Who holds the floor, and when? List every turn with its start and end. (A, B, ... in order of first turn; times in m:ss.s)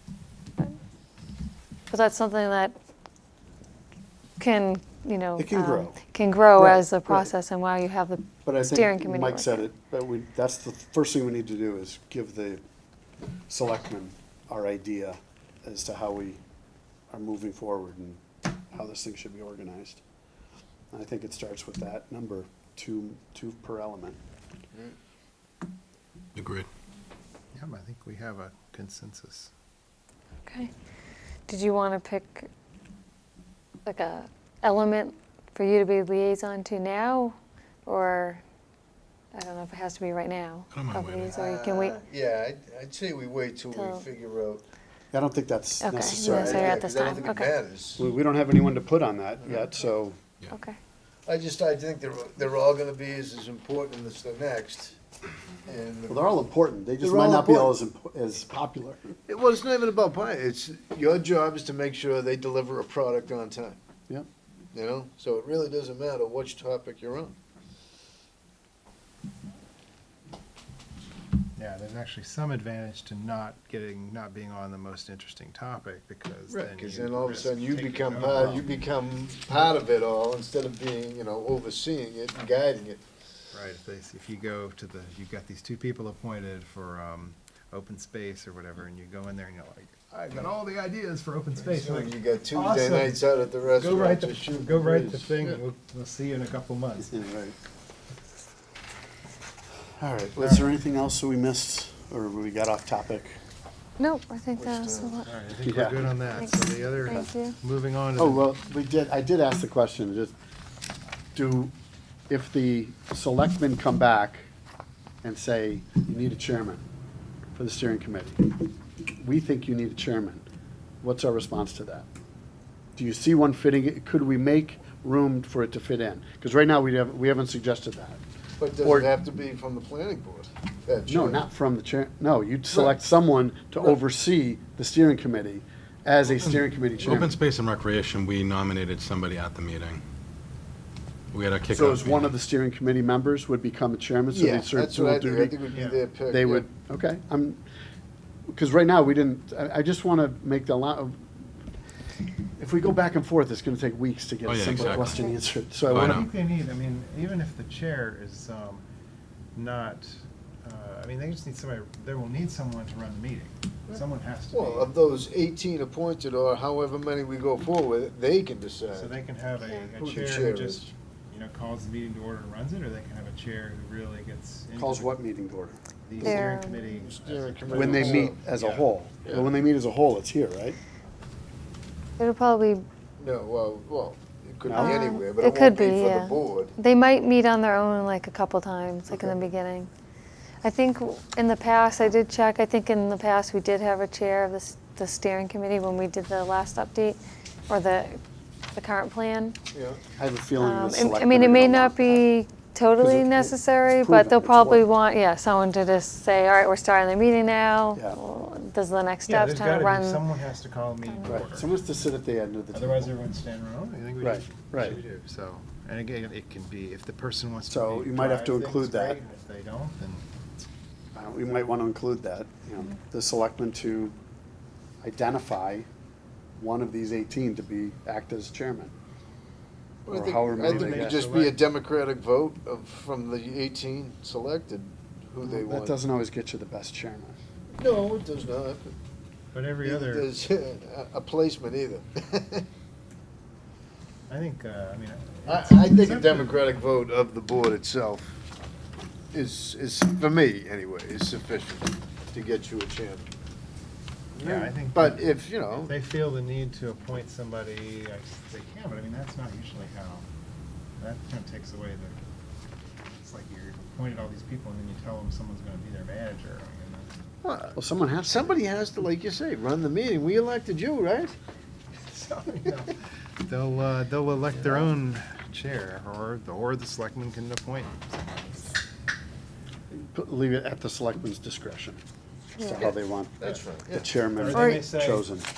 0:01.9-0:02.7 A
0:04.4-0:09.7 A
0:05.4-0:06.0 B
0:06.6-0:07.3 B
0:08.4-0:12.6 B
0:13.5-0:16.4 B
0:17.1-0:20.0 B
0:20.9-0:24.2 B
0:26.4-0:26.7 C
0:27.5-0:29.5 D
0:30.4-0:30.7 A
0:31.5-0:32.5 A
0:33.8-0:38.4 A
0:39.3-0:42.0 A
0:40.7-0:41.3 C
0:41.3-0:44.6 E
0:43.7-0:44.0 A
0:45.1-0:46.8 B
0:45.8-0:47.5 A
0:46.0-0:48.0 E
0:48.0-0:50.2 B
0:50.5-0:50.8 A
0:51.2-0:55.0 E
0:55.6-0:56.3 E
0:56.1-0:59.2 B
0:57.0-0:57.7 E
0:59.3-1:03.8 E
1:04.7-1:07.4 E
1:11.6-1:18.7 D
1:16.5-1:23.0 E
1:23.5-1:37.1 D
1:31.6-1:35.6 E
1:37.0-1:37.6 B
1:40.0-1:43.4 B
1:40.4-1:40.7 D
1:44.0-1:45.3 A
1:44.6-1:45.2 E
1:45.2-1:48.4 D
1:45.6-1:46.1 B
1:46.3-1:47.6 A
1:48.2-1:50.3 B
1:51.3-1:51.7 B
1:52.3-1:54.5 B
1:55.2-1:56.8 B
1:57.6-1:58.5 B
1:59.2-2:00.4 B
2:01.0-2:02.0 B
2:03.0-2:08.2 B
2:08.6-2:11.4 E
2:08.8-2:09.1 B
2:11.1-2:17.3 B
2:16.4-2:20.0 C
2:21.3-2:22.3 C
2:21.7-2:25.6 B
2:24.3-2:26.7 E
2:25.7-2:26.0 D
2:26.2-2:27.6 B
2:28.5-2:31.3 B
2:32.6-2:36.2 B
2:34.4-2:35.2 C
2:34.7-2:35.0 D
2:35.8-2:38.8 D
2:35.9-2:36.3 C
2:39.5-2:45.0 D
2:43.9-2:49.1 E
2:48.9-2:55.1 D
2:50.0-2:50.9 E
2:54.8-2:56.3 B
2:56.1-2:58.8 D
2:56.2-2:56.8 A
2:56.8-2:58.4 E
2:57.7-3:00.8 B
3:02.2-3:02.8 A
3:03.2-3:06.7 E
3:04.6-3:05.1 B
3:04.7-3:09.9 A
3:10.6-3:18.2 A
3:18.7-3:19.6 A
3:19.7-3:20.0 E
3:20.2-3:22.2 B
3:20.6-3:30.2 A
3:23.0-3:24.8 B
3:27.9-3:28.2 B
3:29.3-3:31.7 D
3:31.1-3:31.4 A
3:31.2-3:33.1 B
3:32.7-3:40.2 D
3:34.2-3:35.0 B
3:37.7-3:39.2 B
3:41.1-3:44.2 B
3:45.0-3:45.9 B
3:46.6-3:48.9 B
3:50.0-3:56.0 E
3:50.1-3:51.2 B
3:50.6-3:51.6 D
3:55.4-3:57.4 B
3:57.7-3:58.9 E
3:59.5-4:00.3 D
3:59.8-4:02.6 E
4:04.3-4:06.6 D
4:05.5-4:08.4 E
4:09.3-4:13.3 E
4:14.4-4:15.9 E
4:14.4-4:20.2 D
4:21.0-4:22.2 D
4:23.2-4:27.1 D
4:27.4-4:31.3 E
4:27.7-4:28.6 B
4:32.0-4:38.8 D
4:34.5-4:34.9 E
4:39.9-4:42.0 B
4:42.6-4:45.5 B
4:42.6-4:42.9 A
4:42.8-4:44.1 E
4:44.3-4:45.3 D
4:44.5-4:44.9 A